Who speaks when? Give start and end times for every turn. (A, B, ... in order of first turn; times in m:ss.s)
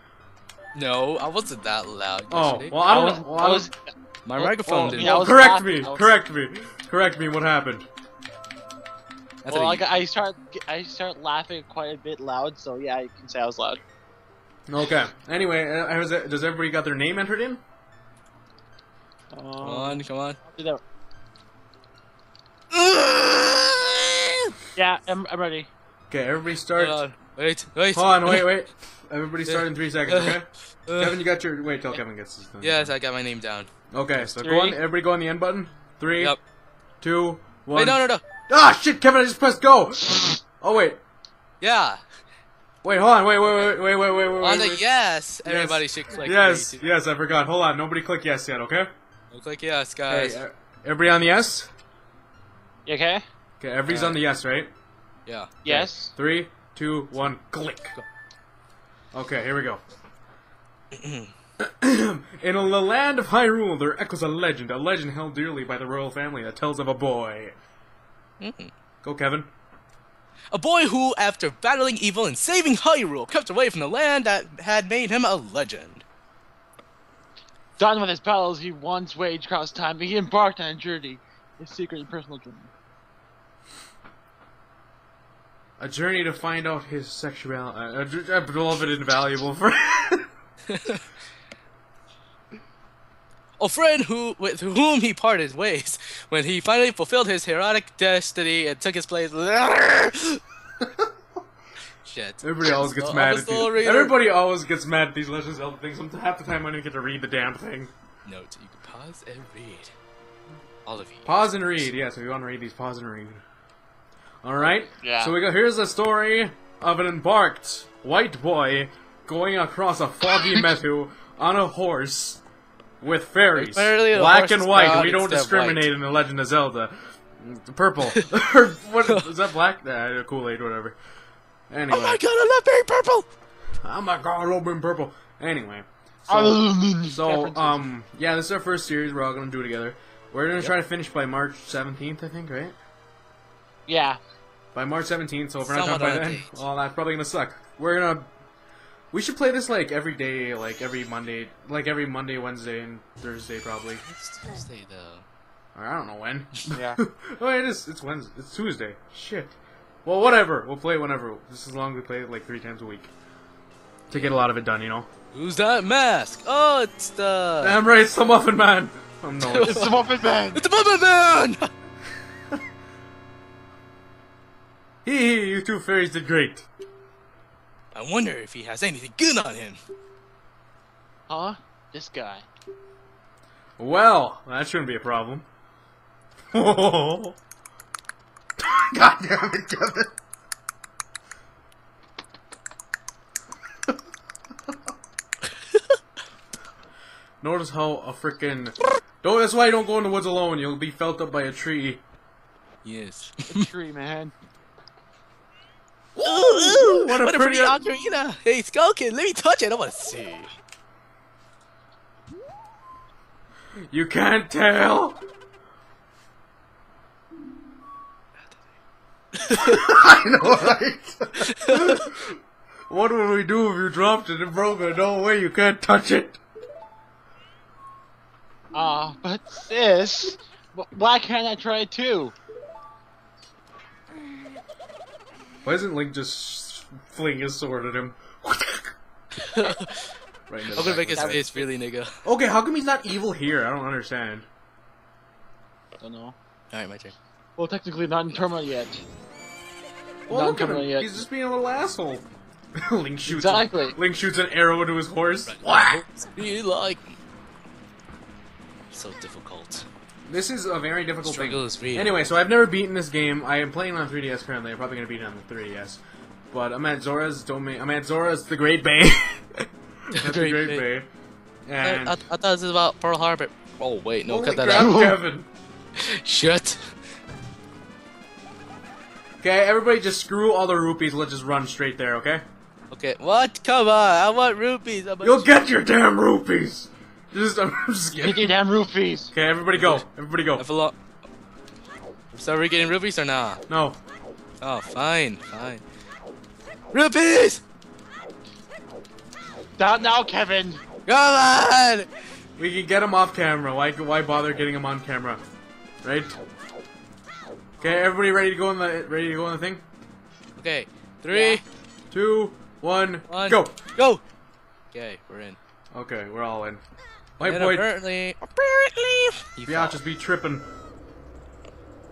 0:00.8-0:02.8 A
0:02.3-0:03.7 B
0:02.9-0:03.8 C
0:04.3-0:05.2 A
0:04.4-0:06.2 C
0:04.9-0:07.9 B
0:09.4-0:09.9 A
0:09.5-0:13.8 C
0:14.7-0:17.6 B
0:19.3-0:20.8 C
0:19.6-0:20.4 A
0:22.7-0:24.6 A
0:24.8-0:25.7 C
0:26.1-0:27.0 B
0:26.8-0:28.5 A
0:28.0-0:32.9 B
0:29.5-0:31.2 A
0:32.6-0:33.7 A
0:33.9-0:36.4 B
0:34.4-0:34.8 C
0:37.0-0:41.0 B
0:37.7-0:38.2 A
0:41.6-0:42.0 A
0:42.8-0:44.8 B
0:43.4-0:43.8 A
0:44.4-0:46.9 A
0:45.4-0:48.9 B
0:49.3-0:50.4 A
0:50.1-0:51.7 B
0:52.9-0:53.2 C
0:53.6-0:54.7 B
0:53.9-0:54.2 A
0:55.3-0:55.6 A
0:55.6-0:56.1 C
0:55.7-0:58.0 B
0:59.1-0:59.8 B
1:00.9-1:01.3 A
1:01.6-1:07.6 B
1:08.4-1:08.7 A
1:09.0-1:09.5 B
1:10.5-1:16.0 A
1:17.8-1:22.7 C
1:25.8-1:30.3 B
1:30.7-1:31.0 A
1:33.6-1:40.4 A
1:40.8-1:41.1 B
1:42.0-1:44.2 A
1:42.4-1:47.9 B
1:48.3-1:49.9 A
1:50.8-1:51.8 A
1:51.2-1:53.4 B
1:54.4-2:02.4 B
1:55.0-1:55.3 C
2:03.0-2:11.0 B
2:03.6-2:05.9 A
2:11.7-2:12.2 B
2:11.9-2:13.3 A
2:13.8-2:22.8 B
2:16.3-2:17.8 C
2:23.9-2:24.2 C
2:24.7-2:28.3 B
2:25.7-2:26.6 A
2:29.1-2:34.0 B
2:34.0-2:35.2 A
2:35.8-2:43.1 B
2:36.7-2:37.0 C
2:44.1-2:45.1 B
2:45.3-2:47.8 A
2:47.6-2:49.9 B
2:49.4-2:50.0 A
2:49.6-2:50.6 C
2:50.5-2:51.7 A
2:55.0-2:56.7 B
2:57.9-2:59.8 A
3:01.3-3:02.4 C
3:03.8-3:05.5 B
3:06.5-3:07.4 B
3:08.6-3:10.1 B
3:15.7-3:16.0 A
3:17.4-3:22.0 B
3:22.8-3:23.7 A
3:23.5-3:24.3 C
3:26.2-3:27.8 B
3:26.2-3:30.5 A
3:33.9-3:35.2 B
3:39.4-3:39.9 A
3:39.6-3:42.4 B
3:41.5-3:42.0 A
3:42.9-3:46.4 B
3:48.7-3:52.3 C
3:55.6-3:58.9 B
3:59.4-4:00.1 A
4:00.5-4:01.4 B
4:00.8-4:02.2 A
4:01.0-4:01.7 C
4:02.2-4:04.5 B
4:06.0-4:06.4 C
4:06.7-4:07.2 A
4:07.6-4:09.0 C
4:10.3-4:11.2 C
4:10.3-4:16.1 B
4:13.3-4:14.0 C
4:15.5-4:17.2 A
4:18.9-4:19.9 A
4:20.3-4:26.0 B
4:21.2-4:22.2 A
4:26.5-4:31.1 B
4:30.2-4:30.9 A
4:31.7-4:32.2 B
4:31.8-4:35.0 A
4:34.3-4:35.5 B
4:34.7-4:35.2 C
4:36.0-4:36.9 A
4:39.4-4:42.4 B
4:42.9-4:45.5 A
4:45.2-4:48.5 B
4:48.2-4:49.3 C
4:49.3-4:50.6 B
4:49.7-4:50.1 A
4:50.6-4:51.0 A
4:52.3-4:53.6 A
4:53.7-4:54.0 B
4:54.6-4:55.8 A
4:56.9-4:57.6 A
4:59.8-5:00.8 C
5:01.1-5:02.1 A
5:02.6-5:05.4 B
5:06.0-5:06.4 B
5:07.8-5:09.8 B
5:10.6-5:11.6 A
5:11.3-5:11.6 C
5:12.1-5:13.8 B
5:13.3-5:14.2 A
5:14.9-5:15.6 A
5:15.9-5:16.8 B
5:17.4-5:17.9 B
5:17.4-5:20.0 A
5:19.6-5:20.7 B